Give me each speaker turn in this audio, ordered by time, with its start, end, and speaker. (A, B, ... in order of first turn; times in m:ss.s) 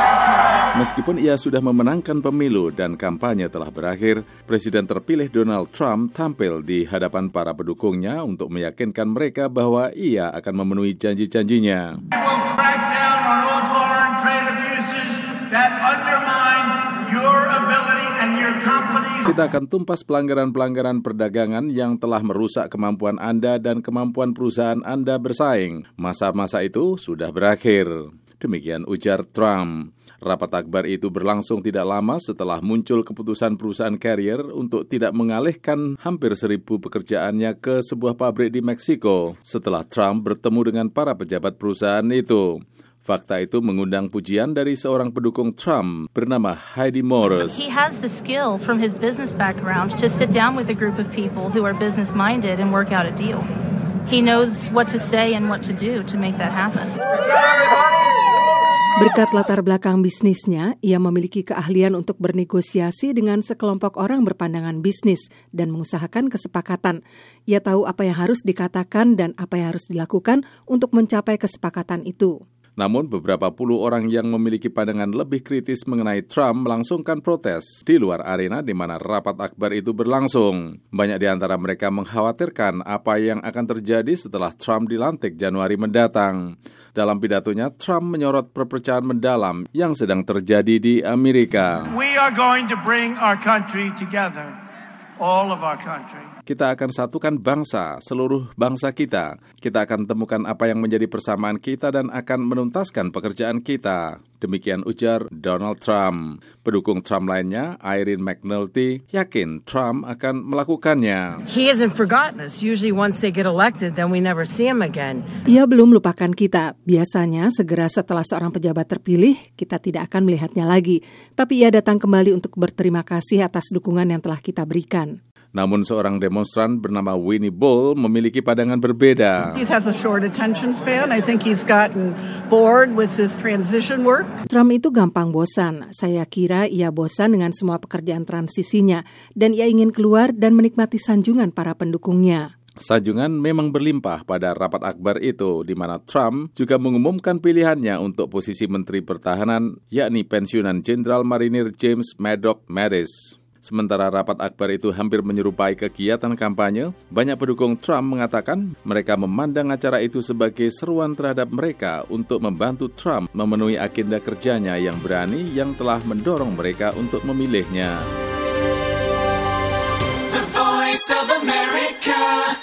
0:00.8-0:12.0 A
0:12.1-0:19.3 B
0:19.3-0:47.7 A
0:47.4-0:53.5 C
0:54.1-0:57.0 C
0:59.0-1:07.0 D
1:07.5-1:12.3 D
1:12.8-1:26.4 A
1:27.0-1:31.9 A
1:31.9-1:34.6 B
1:35.2-1:36.3 B
1:36.5-1:51.4 A
1:51.5-1:55.3 E
1:55.5-2:05.1 D
2:05.6-2:09.6 A
2:09.6-2:14.3 F
2:14.5-2:22.4 D
2:22.8-2:48.1 A
2:50.4-2:52.5 G